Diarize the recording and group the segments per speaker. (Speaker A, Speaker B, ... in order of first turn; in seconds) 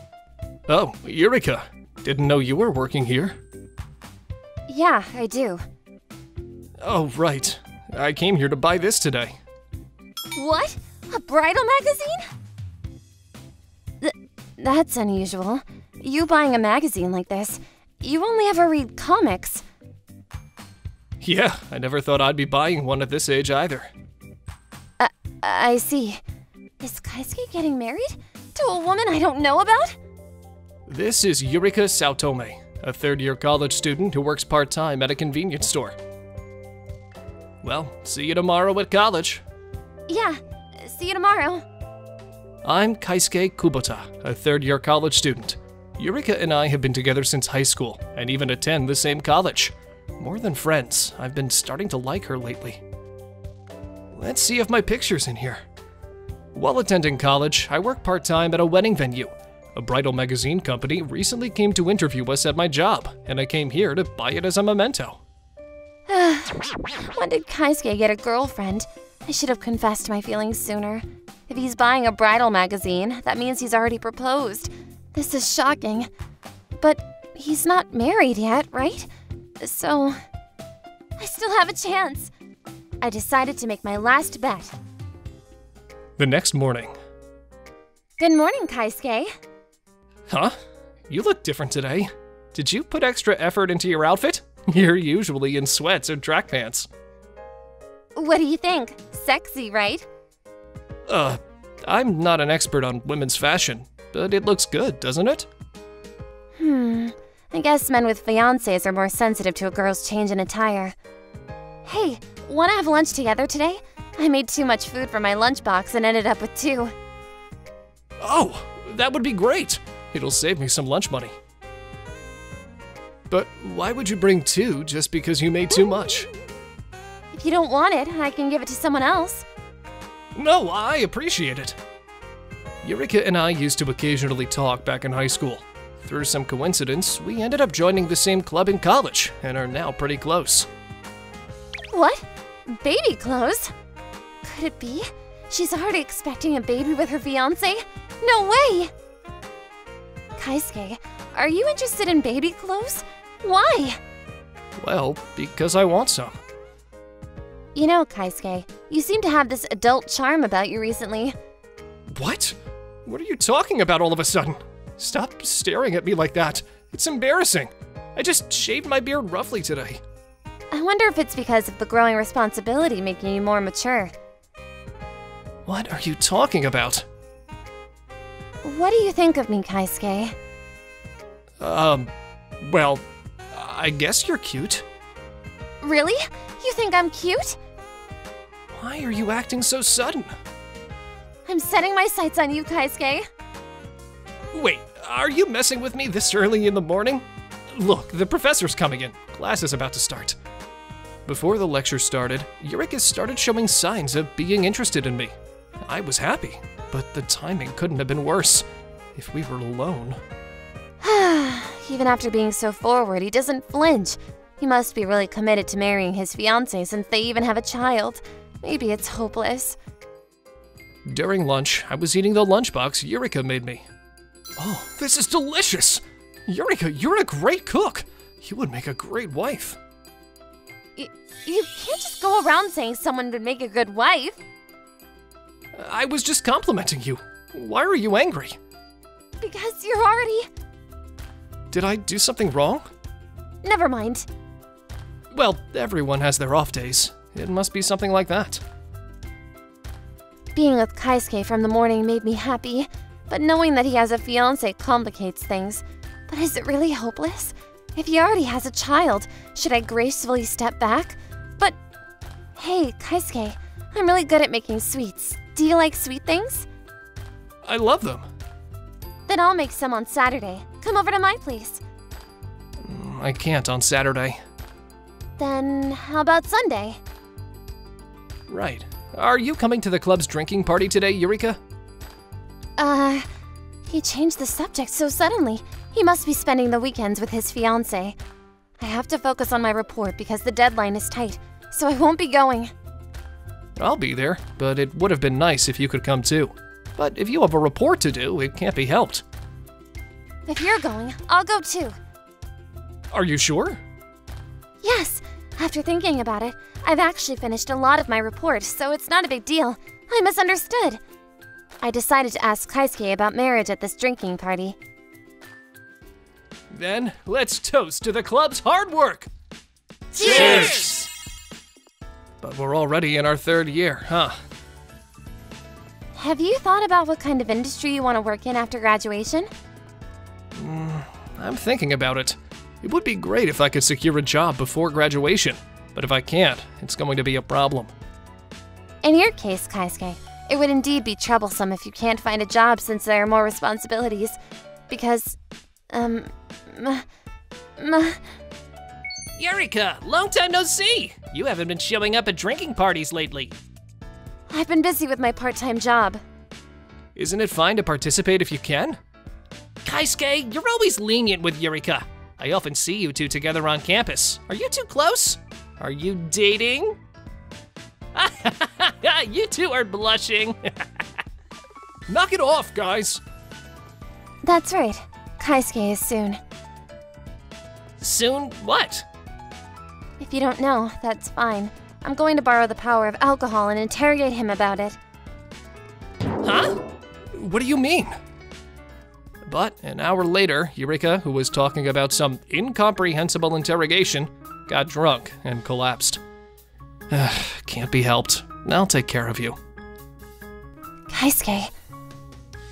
Speaker A: 0.7-3.4, 6.8-9.4, 21.2-23.9, 30.9-36.0, 37.6-39.4, 42.6-52.8, 54.1-55.6, 56.5-65.2, 86.2-87.0, 90.3-90.5, 91.1-96.9, 101.1-105.5, 118.2-121.3, 123.3-126.3, 130.3-131.8, 132.8-140.7, 154.8-156.3, 162.2-170.0, 175.7-177.1, 181.6-184.8, 188.7-190.3, 194.5-200.4, 201.3-210.2, 221.1-223.8, 224.6-229.8, 235.7-238.6, 241.7-242.9, 245.3-248.6, 267.6-268.3, 272.8-274.4, 278.5-281.6, 293.8-299.2, 303.1-303.8, 316.7-319.3, 320.1-321.1, 322.4-324.4, 330.6-337.9, 349.4-353.5, 357.2-359.0, 359.9-367.0, 368.1-371.1, 372.1-373.2, 378.0-379.1, 386.4-388.1, 389.4-396.2, 397.1-399.6
Speaker B: 4.7-5.6, 10.3-12.3, 14.0-19.6, 25.0-26.2, 26.8-30.0, 40.1-41.6, 66.1-76.1, 76.8-79.1, 79.6-80.2, 81.2-82.3, 83.0-84.8, 88.2-89.3, 98.2-100.1, 106.6-111.0, 111.8-116.9, 125.9-126.2, 127.3-129.5, 141.9-143.7, 144.4-148.9, 150.4-154.0, 157.8-161.3, 170.7-174.1, 178.6-180.3, 185.8-187.6, 191.5-193.3, 211.0-219.8, 231.0-234.4, 239.4-240.5, 243.6-244.3, 250.6-261.8, 262.6-266.7, 269.3-271.8, 275.4-277.0, 282.8-283.3, 283.9-288.2, 288.8-292.7, 300.5-301.9, 304.8-311.0, 311.8-314.8, 320.1-320.8, 326.1-329.5, 339.0-344.4, 344.9-345.4, 345.9-347.1, 347.8-348.2, 354.5-356.2, 374.4-376.4, 380.2-385.0, 401.1-401.7